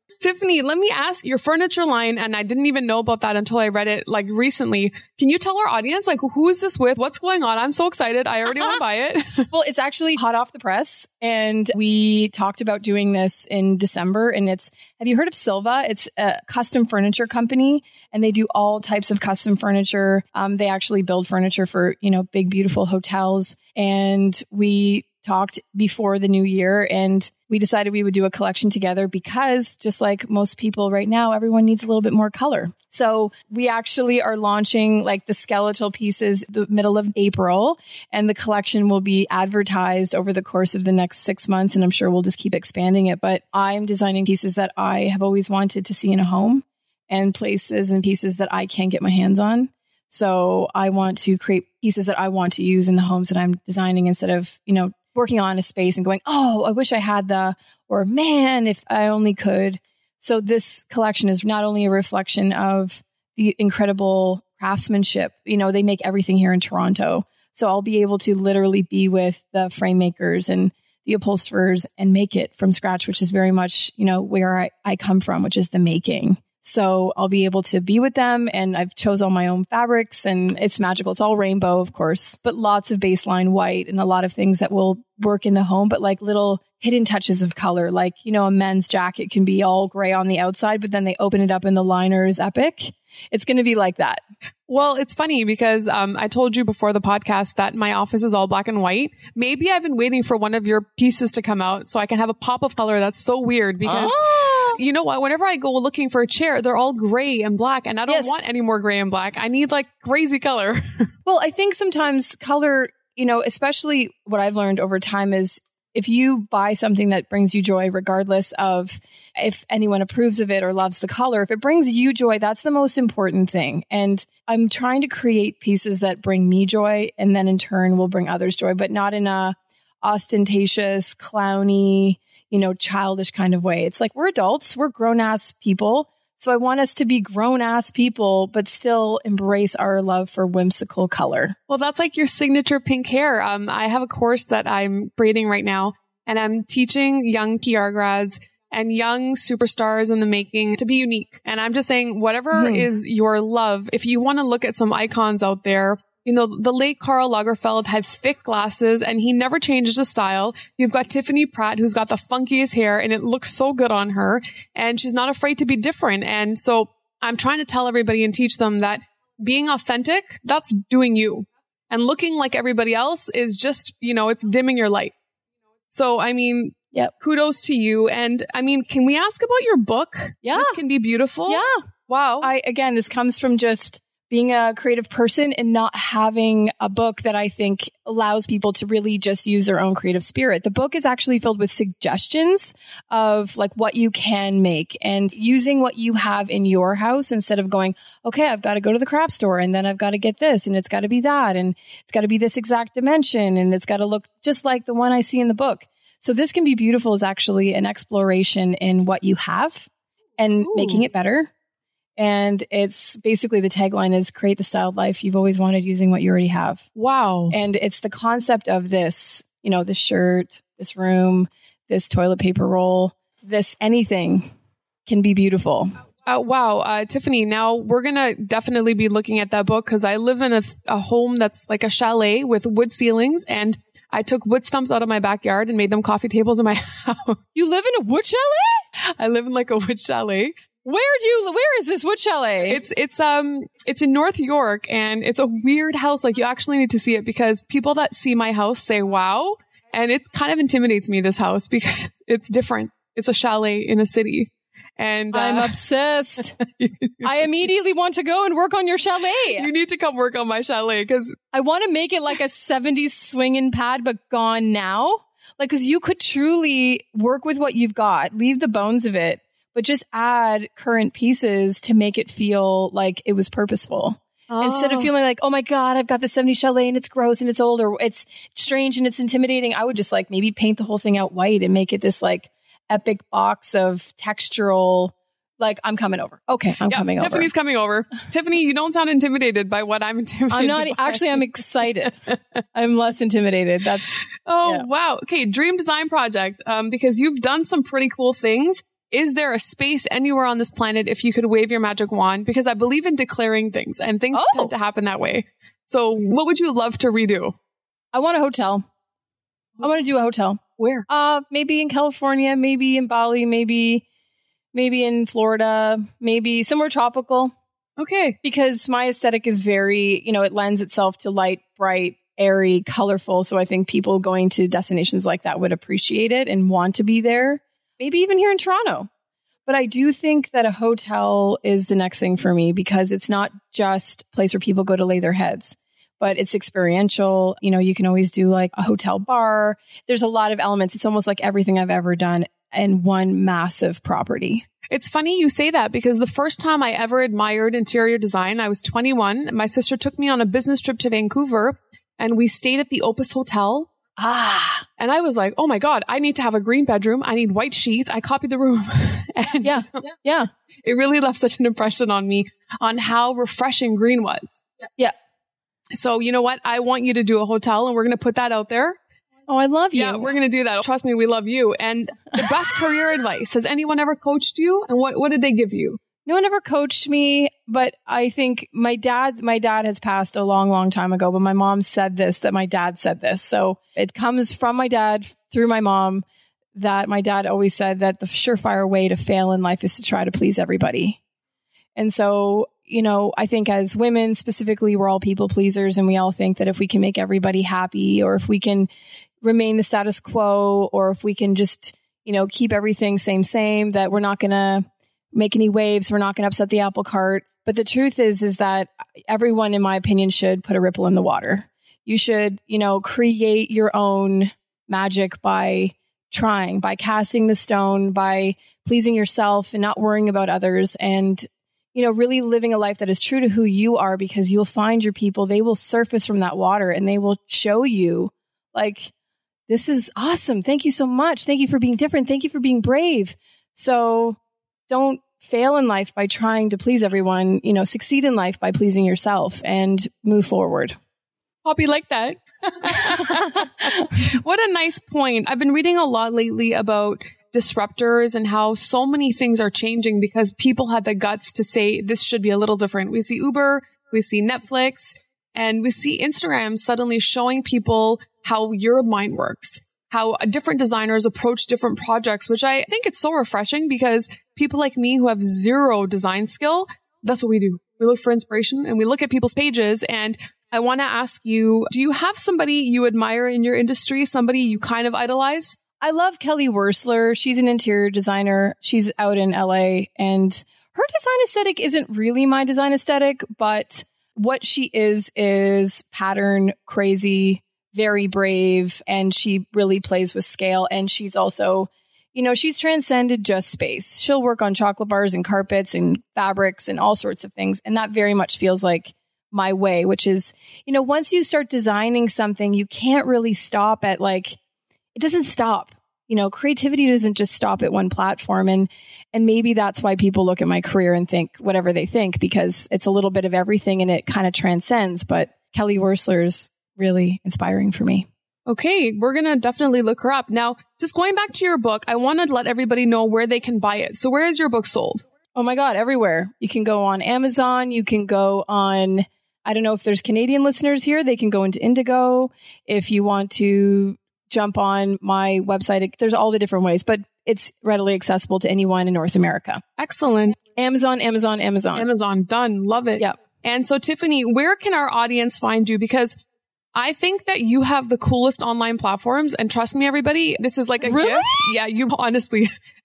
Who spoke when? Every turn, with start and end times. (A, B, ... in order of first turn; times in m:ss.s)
0:00.2-0:09.4 A
0:09.5-1:34.2 B
1:34.7-1:51.1 A
1:43.8-1:44.8 B
1:48.1-1:48.4 B
1:51.2-2:21.6 B
2:21.7-2:55.1 A
2:32.5-2:32.9 B
2:55.9-3:02.5 A
3:00.4-3:00.8 B
3:01.5-3:01.8 B
3:02.4-3:31.5 B
3:30.6-3:31.0 A
3:32.2-3:36.8 B
3:37.0-3:37.6 A
3:37.5-3:44.5 B
3:45.1-3:45.9 B
3:46.3-3:57.4 A
3:57.6-3:58.8 B
3:59.2-4:00.5 A
4:00.8-4:02.8 B
4:02.7-4:15.7 A
4:15.3-4:16.6 B
4:16.7-4:17.3 A
4:17.2-4:19.7 B
4:19.6-4:21.3 A
4:21.5-4:47.5 B
4:34.5-4:35.1 A
4:46.9-4:51.6 A
4:50.5-4:52.2 B
4:52.7-4:54.9 B
4:54.4-5:07.5 A
5:04.3-5:04.7 B
5:08.1-5:08.8 B
5:09.8-5:14.0 B
5:10.8-5:11.0 A
5:14.7-5:17.5 B
5:18.0-5:18.4 A
5:18.4-5:29.1 B
5:29.7-5:44.7 B
5:44.9-5:53.9 A
5:54.2-5:54.9 B
5:55.0-6:00.0 A
5:59.6-6:00.5 B
6:00.8-6:04.5 A
6:05.9-6:09.0 A
6:09.5-6:10.3 B
6:09.9-6:16.0 A
6:16.3-6:31.2 B
6:32.0-6:38.9 B
6:39.4-7:09.1 B
7:09.7-7:14.4 B
7:14.9-7:20.9 B
7:21.6-7:55.8 A
7:56.0-8:24.6 B
8:25.2-8:38.3 B
8:38.7-8:45.2 A
8:45.6-8:59.8 B
9:00.0-9:00.6 A
9:00.8-9:02.1 B
9:02.0-9:06.4 A
9:07.0-9:12.7 A
9:11.0-9:11.7 B